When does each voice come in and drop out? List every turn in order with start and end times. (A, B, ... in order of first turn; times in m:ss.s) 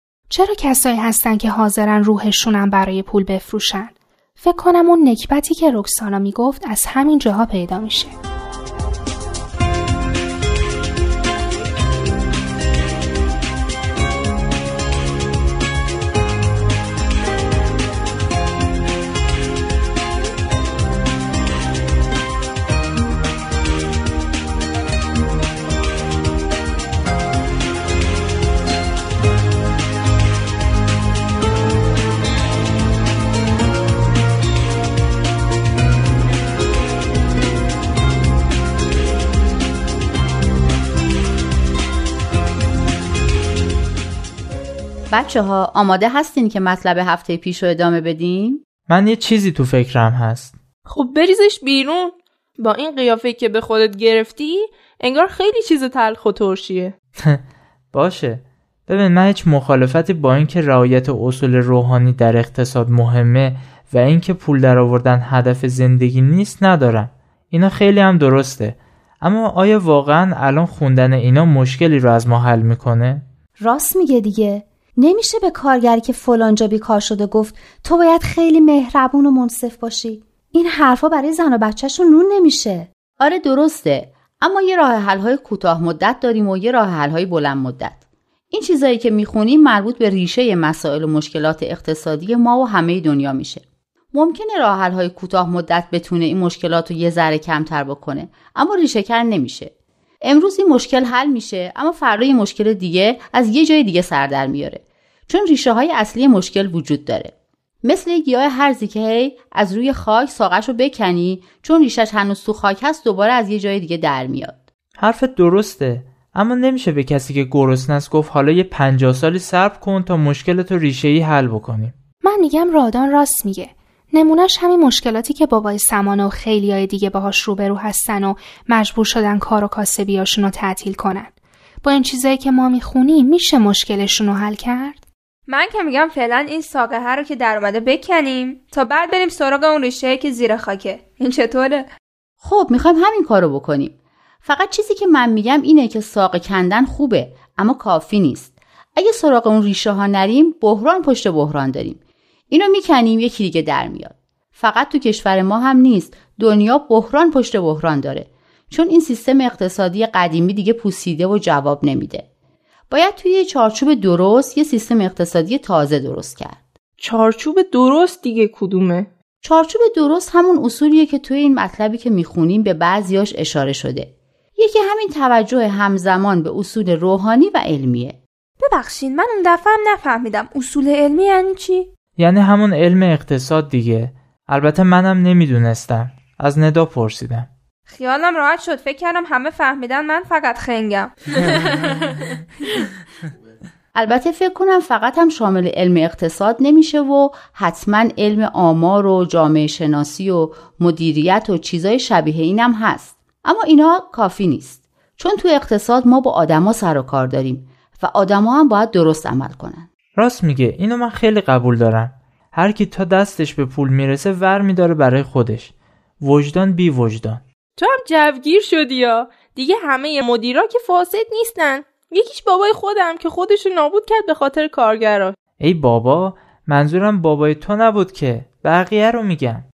0:00.3-0:08.1 A
0:45.1-0:48.6 B
0:48.9-0:50.5 C
0:50.9-0:56.9 D
0:57.9-1:13.2 C
1:13.6-1:22.9 E
1:23.2-1:28.0 B
1:28.5-1:39.7 B
1:40.2-1:54.6 B
1:55.0-2:02.0 C
2:02.2-2:15.0 A
2:15.5-2:21.9 F
2:22.4-2:32.0 B
2:32.5-2:42.2 B
2:42.9-2:46.6 B
2:47.0-2:49.1 D
2:49.4-2:58.2 B
2:58.6-3:01.9 F
3:02.2-3:07.5 C
3:07.9-3:12.2 F
3:13.9-3:29.9 B
3:30.2-3:37.4 C
3:37.8-3:45.4 D
3:45.6-3:49.7 C